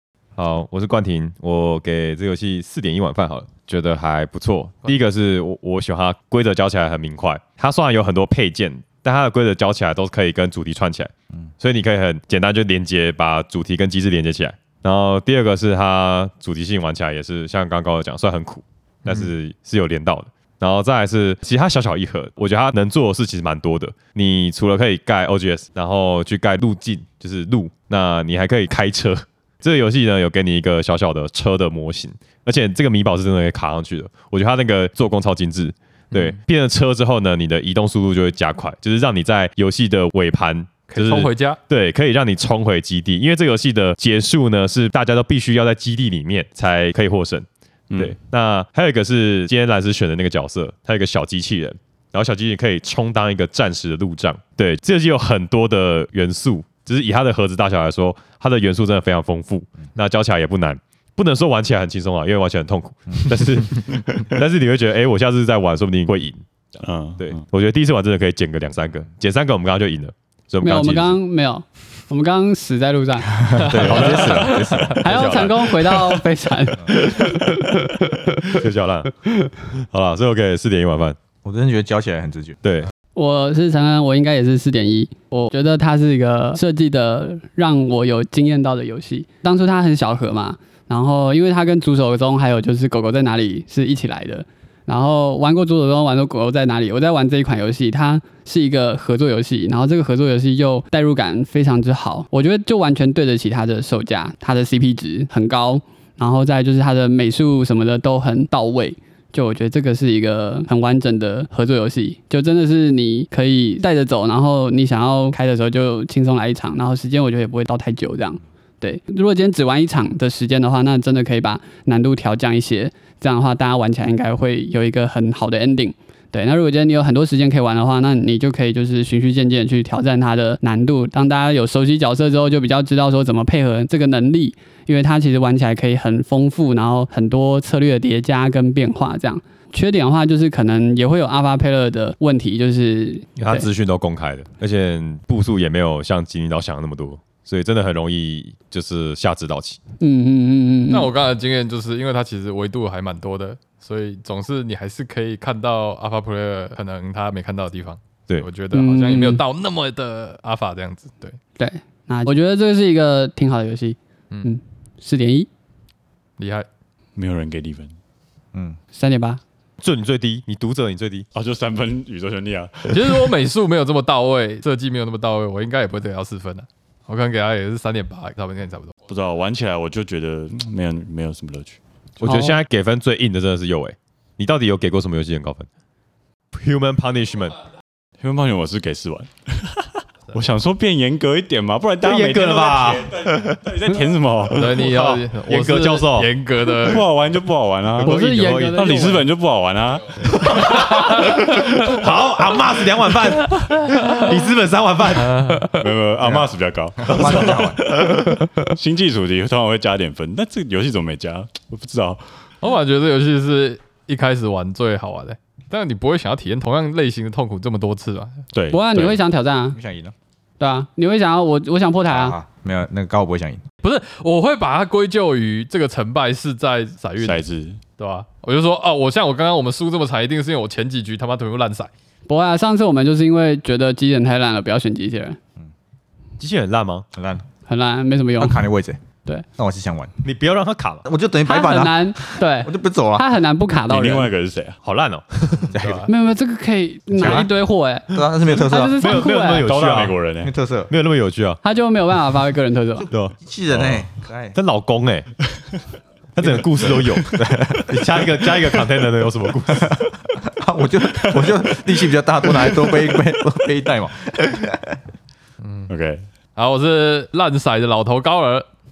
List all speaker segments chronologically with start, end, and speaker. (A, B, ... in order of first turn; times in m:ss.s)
0:00.4-1:11.2 A
0:36.1-0:36.4 B
0:40.9-0:41.6 B
0:47.9-0:48.2 C
1:06.8-1:07.4 C
1:10.6-1:14.2 D
1:13.5-1:15.1 E
1:13.8-1:15.0 B
1:13.8-1:16.2 A
1:14.9-1:17.8 D
1:17.1-1:17.6 A
1:18.4-1:19.1 A
1:19.6-1:21.2 A
1:21.4-1:22.6 E
1:22.6-1:22.9 A
1:23.2-2:23.7 D
2:23.4-2:29.8 A
2:30.0-2:31.1 D
2:30.9-2:41.4 B
2:38.7-2:39.4 D
2:41.6-2:45.5 D
2:46.4-2:46.6 B
2:47.1-2:47.9 C
2:48.5-2:48.8 E
2:48.9-2:49.4 D
2:49.8-2:51.2 A
2:51.3-2:53.3 C
2:52.9-2:58.9 B
2:59.1-3:01.8 C
3:02.2-3:02.6 B
3:02.2-3:05.7 A
3:06.5-3:07.6 A
3:08.2-3:14.9 C
3:12.0-3:13.6 A
3:14.5-3:17.1 B
3:14.8-3:16.3 A
3:16.8-3:20.2 C
3:18.0-3:19.3 D
3:18.0-3:19.1 A
3:20.2-3:25.4 A
3:25.2-3:25.7 B
3:25.7-3:27.6 C
3:27.0-3:27.8 E
3:27.1-3:28.5 A
3:28.6-3:32.4 C
3:32.6-3:38.4 B
3:38.5-3:39.2 C
3:38.7-3:39.8 D
3:39.7-3:40.1 E
3:40.6-3:42.4 D
3:42.1-3:43.6 E
3:43.8-3:47.4 B
3:47.2-3:47.8 C
3:48.0-3:51.9 B
3:52.3-3:55.4 D
3:56.4-3:57.0 A
3:57.1-3:57.4 E
3:57.7-3:58.6 D
3:58.4-3:59.0 E
3:59.5-4:00.1 E
4:00.2-4:01.0 A
4:01.0-4:03.2 E
4:01.4-4:04.3 D
4:03.8-4:04.8 C
4:04.8-4:05.9 A
4:05.7-4:06.1 E
4:05.8-4:06.1 B
4:06.0-4:09.6 D
4:07.2-4:07.5 E
4:08.1-4:09.0 E
4:09.0-4:10.2 A
4:09.6-4:10.5 C
4:10.4-4:10.9 E
4:10.9-4:11.6 A
4:11.6-4:13.1 D
4:13.1-4:13.4 A
4:13.2-4:14.6 E
4:13.7-4:14.0 C
4:14.5-4:15.3 A
4:16.3-4:20.0 A
4:17.3-4:18.2 E
4:19.9-4:25.0 E
4:25.6-4:25.9 B
4:25.9-4:26.3 C
4:26.6-4:28.6 B